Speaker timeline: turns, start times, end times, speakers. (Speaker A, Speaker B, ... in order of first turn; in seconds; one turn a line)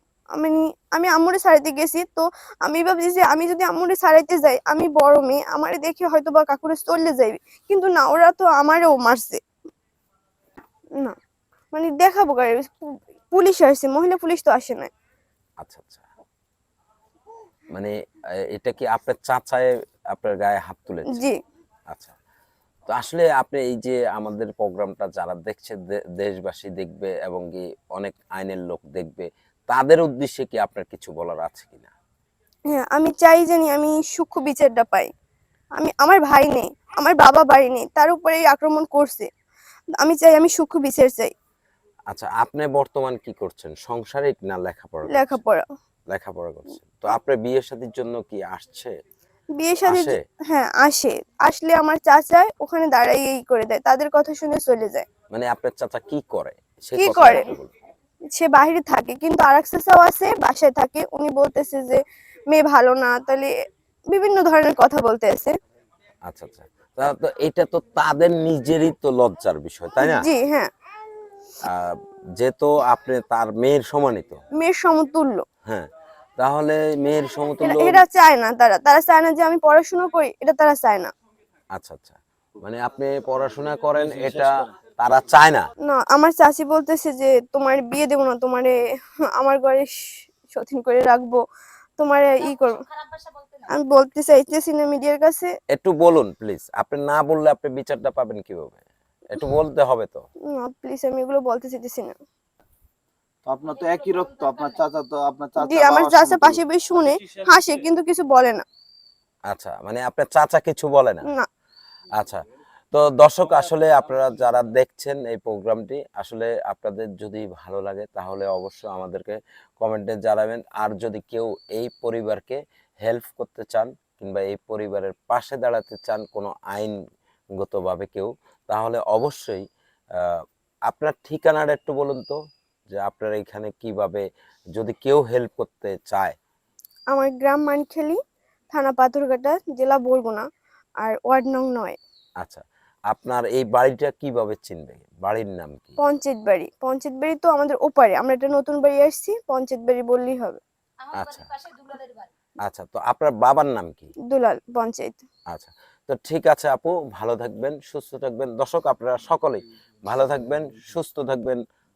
Speaker A: 0.3-9.4
Speaker A: 11.7-14.9
Speaker B: 15.6-16.0
Speaker B: 17.7-21.2
Speaker A: 21.1-21.4
Speaker B: 21.9-22.1
Speaker B: 22.9-31.9
Speaker A: 32.7-35.1
Speaker A: 35.8-39.3
Speaker A: 40.0-41.3
Speaker B: 42.1-45.4
Speaker A: 45.1-45.6
Speaker B: 46.1-48.9
Speaker A: 49.5-55.0
Speaker B: 49.8-50.2
Speaker B: 55.3-57.7
Speaker A: 57.0-57.5
Speaker A: 58.3-63.5
Speaker A: 64.1-65.5
Speaker B: 66.3-70.3
Speaker A: 70.0-70.7
Speaker B: 71.6-74.4
Speaker A: 74.6-75.4
Speaker B: 75.7-78.0
Speaker A: 77.6-81.1
Speaker B: 81.7-85.7
Speaker A: 85.8-88.8
Speaker A: 89.3-91.4
Speaker A: 92.0-92.8
Speaker C: 92.4-93.7
Speaker A: 93.7-95.5
Speaker B: 95.7-100.3
Speaker A: 100.5-102.2
Speaker D: 103.4-106.6
Speaker C: 103.6-104.8
Speaker A: 105.6-108.6
Speaker B: 109.5-111.3
Speaker B: 112.9-127.0
Speaker B: 127.6-129.6
Speaker B: 130.2-132.3
Speaker B: 132.9-134.2
Speaker B: 134.8-136.3
Speaker A: 137.1-138.2
Speaker A: 138.7-140.4
Speaker A: 141.0-142.0
Speaker B: 142.4-146.0
Speaker A: 146.0-150.6
Speaker C: 151.0-152.3
Speaker B: 151.1-151.5
Speaker B: 152.6-154.1
Speaker A: 154.3-155.2
Speaker B: 155.5-161.6